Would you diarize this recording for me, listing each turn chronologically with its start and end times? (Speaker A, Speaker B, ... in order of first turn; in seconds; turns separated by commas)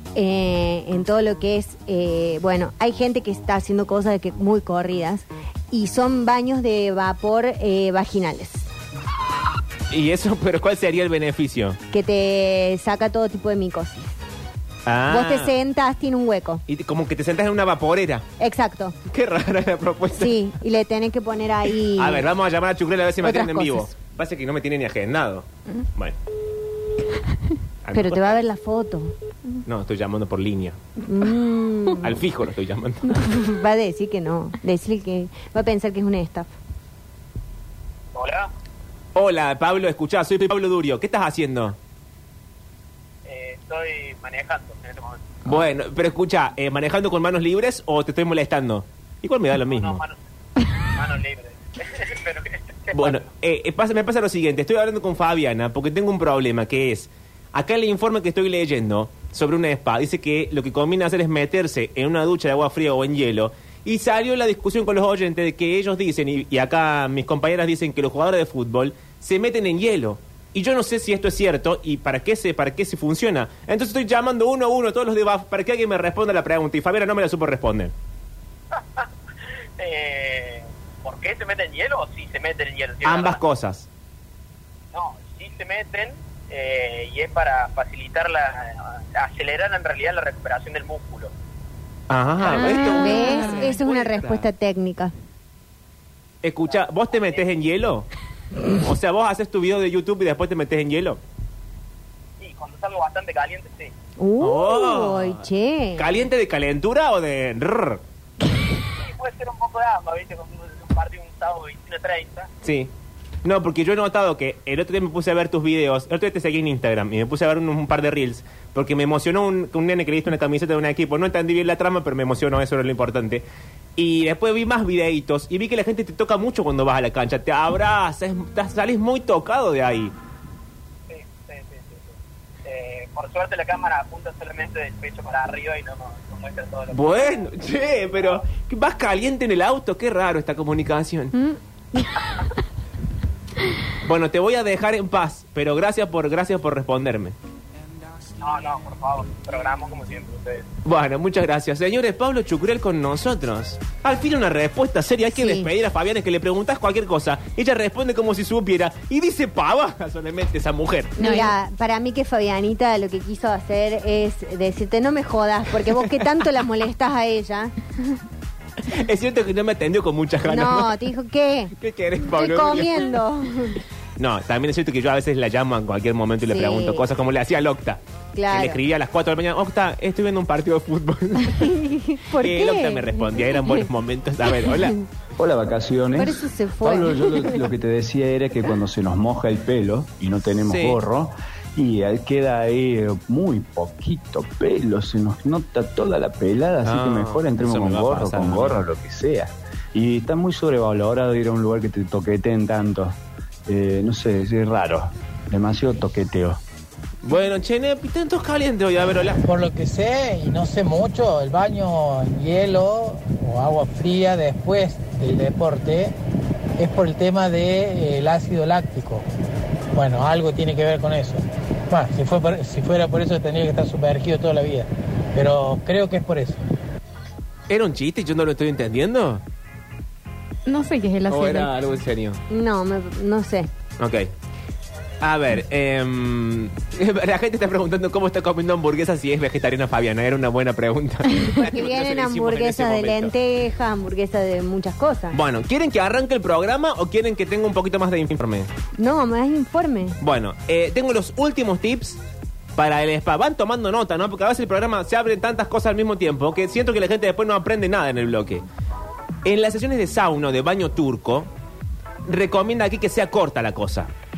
Speaker A: 0.1-8.7, Speaker B: 9.9-11.8, Speaker A: 11.9-14.1, Speaker B: 14.9-15.6, Speaker A: 15.1-16.6, Speaker B: 16.7-18.2, Speaker A: 18.4-19.0, Speaker B: 19.1-20.4, Speaker A: 20.1-22.3, Speaker B: 22.0-26.2, Speaker A: 23.2-23.9, Speaker B: 27.8-28.4, Speaker A: 27.9-29.1, Speaker B: 29.6-30.8, Speaker A: 31.0-32.2, Speaker B: 32.0-33.3, Speaker A: 33.0-36.5, Speaker C: 38.1-38.5, Speaker B: 39.1-41.8, Speaker C: 43.2-45.4, Speaker B: 45.5-50.0, Speaker C: 49.6-50.2, Speaker C: 50.8-53.2, Speaker B: 52.9-77.9, Speaker C: 78.7-79.1, Speaker C: 79.8-83.4, Speaker B: 83.0-83.9, Speaker C: 84.9-91.3, Speaker B: 92.1-94.5, Speaker D: 92.5-93.6, Speaker A: 93.0-95.1, Speaker B: 96.4-98.1, Speaker C: 96.7-97.4, Speaker B: 98.7-101.2, Speaker C: 102.4-103.9, Speaker A: 104.2-106.1, Speaker B: 104.4-108.0, Speaker C: 109.0-112.5, Speaker B: 112.6-112.9, Speaker B: 113.4-123.5, Speaker B: 124.0-130.1, Speaker C: 131.1-132.1, Speaker C: 132.7-137.5, Speaker B: 136.9-141.4, Speaker B: 144.0-147.4, Speaker C: 148.4-150.7, Speaker B: 150.8-161.2, Speaker A: 155.3-155.7, Speaker A: 161.2-167.7, Speaker D: 161.2-161.5, Speaker B: 165.9-166.2, Speaker B: 168.8-171.0, Speaker A: 170.5-171.7, Speaker B: 171.7-173.2, Speaker A: 172.3-173.8, Speaker B: 174.2-181.8, Speaker A: 176.5-177.1, Speaker A: 178.3-178.8, Speaker A: 181.5-183.7, Speaker B: 182.3-185.0, Speaker E: 185.4-203.2, Speaker A: 186.2-187.6, Speaker B: 190.7-191.0, Speaker B: 196.8-198.8, Speaker E: 203.7-206.6, Speaker B: 207.2-209.4, Speaker F: 209.5-216.1, Speaker F: 216.8-219.2, Speaker F: 219.9-226.6, Speaker B: 227.7-229.4, Speaker D: 230.7-231.9, Speaker B: 231.3-232.4, Speaker A: 232.5-233.7, Speaker B: 234.0-234.3, Speaker B: 235.2-243.3, Speaker A: 241.6-245.4, Speaker B: 245.3-248.7, Speaker A: 249.0-250.2, Speaker B: 250.2-252.2, Speaker B: 252.8-258.6, Speaker B: 259.4-261.5, Speaker B: 262.2-264.1